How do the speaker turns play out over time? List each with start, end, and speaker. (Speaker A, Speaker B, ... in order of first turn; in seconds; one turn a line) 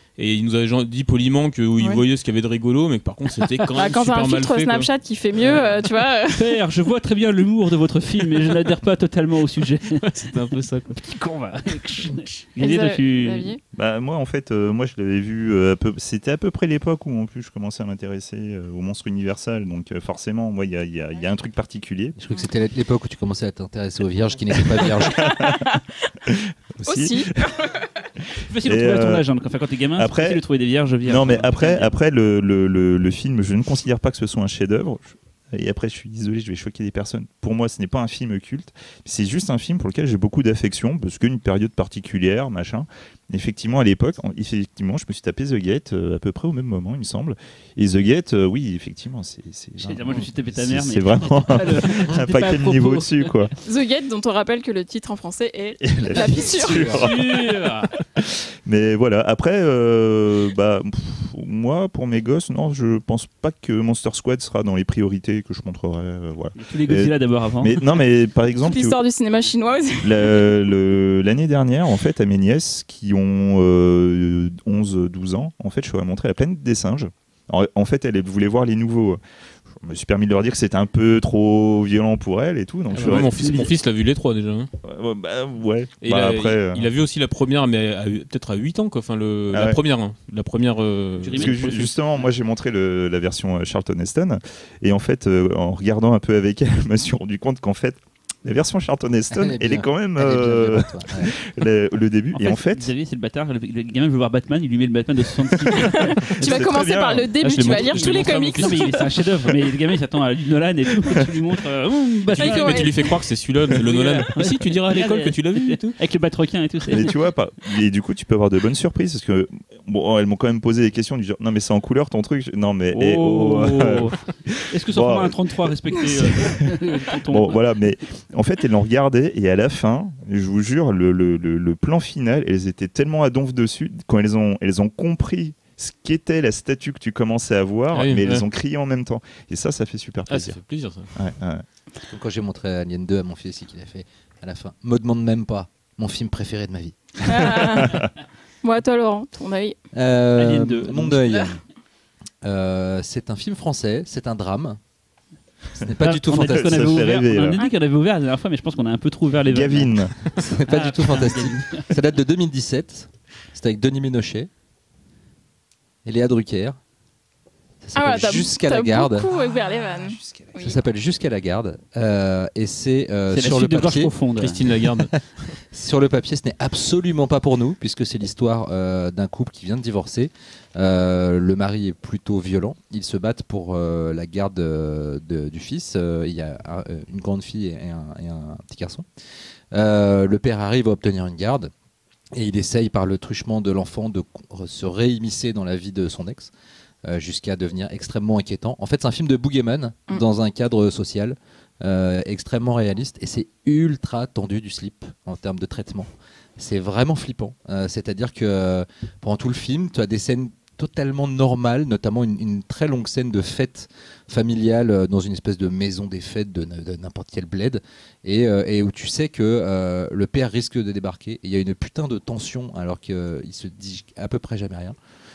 Speaker A: 0.2-4.9
Speaker B: 3.8-6.6
Speaker C: 5.4-10.0
Speaker A: 9.9-11.0
Speaker C: 10.9-13.5
Speaker B: 12.6-13.6
Speaker D: 13.7-22.2
Speaker E: 22.2-25.2
Speaker D: 24.8-25.5
Speaker B: 25.1-26.1
Speaker D: 26.3-27.5
Speaker B: 26.8-27.9
Speaker C: 28.5-31.9
Speaker D: 28.6-29.2
Speaker D: 30.0-30.4
Speaker D: 31.0-53.5
Speaker C: 49.8-53.3
Speaker B: 53.6-57.1
Speaker D: 55.8-57.5
Speaker C: 56.7-57.9
Speaker D: 58.2-69.0
Speaker C: 66.5-67.8
Speaker B: 68.6-70.5
Speaker D: 70.0-79.2
Speaker D: 79.8-83.7
Speaker A: 82.9-84.7
Speaker C: 83.0-83.7
Speaker D: 84.8-86.9
Speaker A: 86.0-91.7
Speaker D: 89.5-89.8
Speaker C: 91.2-92.3
Speaker D: 91.3-102.9
Speaker E: 99.3-101.3
Speaker C: 102.3-106.7
Speaker B: 105.8-109.0
Speaker D: 106.2-108.0
Speaker A: 107.3-108.9
Speaker C: 108.0-113.1
Speaker A: 112.3-116.0
Speaker B: 112.4-113.1
Speaker C: 113.8-117.1
Speaker D: 116.9-140.6
Speaker C: 122.9-124.2
Speaker C: 124.7-127.6
Speaker A: 137.9-138.4
Speaker A: 140.3-141.1
Speaker D: 141.1-141.6
Speaker E: 142.1-147.7
Speaker B: 147.2-148.0
Speaker D: 147.6-148.1
Speaker B: 148.6-149.8
Speaker E: 149.9-151.6
Speaker C: 150.4-151.2
Speaker E: 152.4-154.8
Speaker E: 155.8-157.0
Speaker C: 156.0-161.9
Speaker D: 156.3-157.6
Speaker D: 159.4-160.4
Speaker E: 160.4-164.5
Speaker E: 166.0-166.8
Speaker E: 167.8-174.1
Speaker B: 167.9-170.8
Speaker C: 173.3-174.6
Speaker A: 174.4-175.5
Speaker E: 175.7-189.1
Speaker E: 189.7-191.7
Speaker E: 192.3-196.5
Speaker E: 197.0-224.9